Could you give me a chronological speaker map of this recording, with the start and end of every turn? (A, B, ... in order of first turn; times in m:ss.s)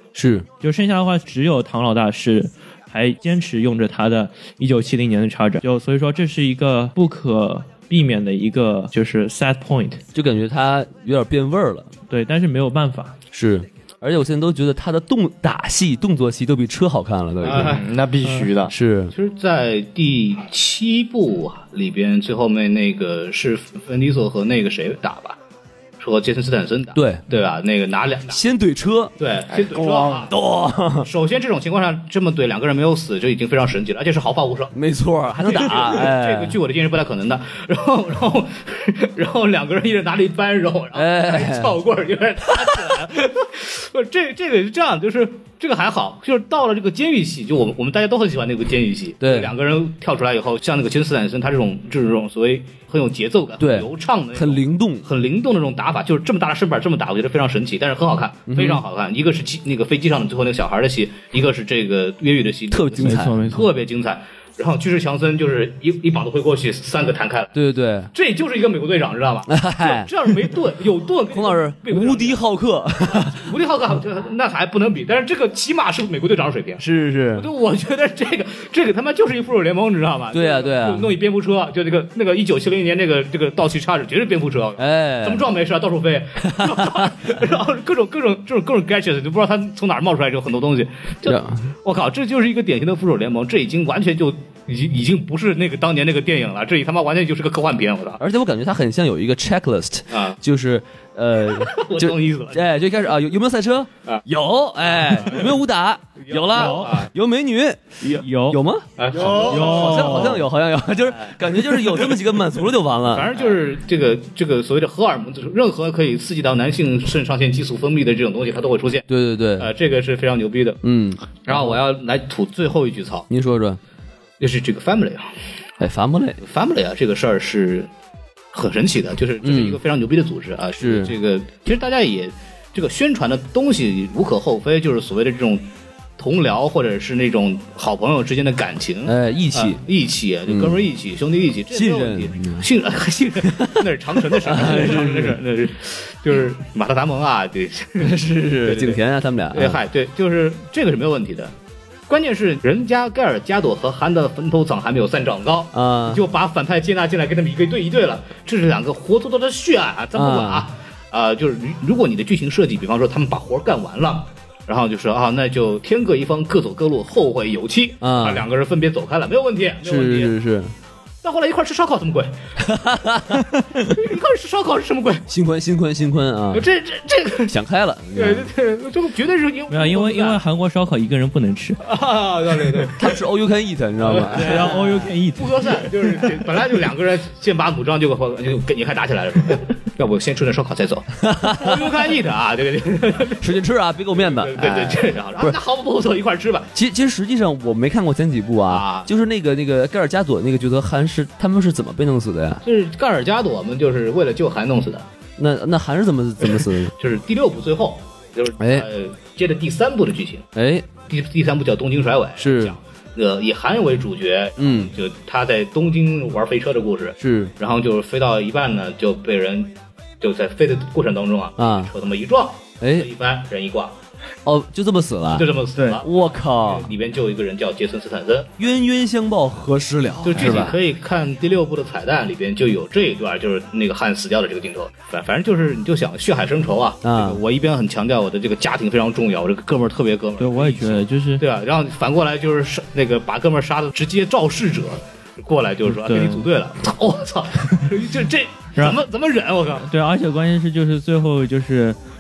0:00.2-0:00.5 A
0:00.6-0:10.0 B
0:10.1-0:11.9 A
0:12.1-0:13.2 B
0:13.3-0:17.8 A
0:17.4-0:17.8 C
0:17.5-0:18.7 D
0:18.7-0:19.1 A
0:19.1-0:25.4 C
0:26.0-0:28.4 C
0:27.0-0:27.2 A
0:28.3-0:29.1 A
0:29.2-0:30.3 C
0:29.5-0:30.3 D
0:30.3-0:31.1 A
0:31.0-0:34.7 C
0:34.7-0:36.6 A
0:35.4-1:07.6 C
0:40.9-0:41.8 A
0:49.2-0:49.5 A
0:53.6-0:55.1 A
0:58.5-0:58.8 A
1:02.7-1:03.4 A
1:03.0-1:03.7 B
1:07.6-1:08.1 A
1:08.1-1:12.4 C
1:09.5-1:10.5 A
1:11.3-1:13.5 A
1:13.1-1:16.8 C
1:16.8-1:17.5 A
1:17.4-1:38.2 C
1:20.3-1:21.2 A
1:24.8-1:25.5 A
1:26.4-1:27.1 A
1:31.3-1:31.7 A
1:38.2-1:53.4 A
1:40.1-1:40.4 C
1:41.5-1:42.6 C
1:45.1-1:45.6 C
1:46.2-1:47.1 C
1:46.5-1:47.0 B
1:48.1-1:48.6 B
1:49.0-1:50.4 C
1:49.4-1:50.4 B
1:51.3-1:52.1 C
1:53.1-1:59.0 C
1:59.1-1:59.7 A
1:59.6-2:00.8 C
2:00.8-2:01.8 A
2:01.5-2:03.3 C
2:03.3-2:03.8 A
2:04.4-2:05.3 C
2:05.8-2:06.4 A
2:06.4-2:07.9 C
2:08.5-2:15.7 C
2:09.4-2:09.8 A
2:10.8-2:11.2 A
2:16.2-2:29.0 C
2:19.1-2:19.8 A
2:20.5-2:20.8 A
2:21.7-2:22.7 A
2:23.4-2:25.4 A
2:28.0-2:29.8 A
2:29.5-2:31.5 C
2:32.1-2:50.3 C
2:35.7-2:36.2 A
2:40.2-2:40.7 A
2:48.0-2:48.5 A
2:49.8-2:50.7 A
2:51.2-2:52.3 C
2:52.6-2:53.8 A
2:53.9-2:55.3 C
2:55.3-2:56.7 A
2:56.5-2:57.5 C
2:57.5-2:58.5 A
2:58.2-3:00.4 C
2:59.7-3:01.8 B
3:01.8-3:03.2 C
3:03.0-3:04.8 A
3:04.0-3:13.5 C
3:04.3-3:06.2 B
3:11.2-3:11.8 A
3:13.4-3:14.9 A
3:14.1-3:16.7 C
3:14.6-3:15.0 D
3:16.7-3:22.6 A
3:18.7-3:19.1 C
3:22.6-3:25.1 C
3:25.4-3:26.9 A
3:26.5-3:30.5 C
3:28.6-3:28.9 A
3:30.6-3:30.9 A
3:31.1-3:44.0 C
3:32.4-3:32.8 A
3:34.6-3:34.9 A
3:37.2-3:37.5 A
3:41.6-3:41.9 A
3:42.8-3:43.1 A
3:44.4-3:46.9 A
3:45.3-3:48.5 C
3:48.6-3:50.8 A
3:50.2-4:09.8 C
3:57.0-3:57.4 A
4:00.4-4:01.4 B
4:05.9-4:06.5 B
4:09.8-4:12.0 B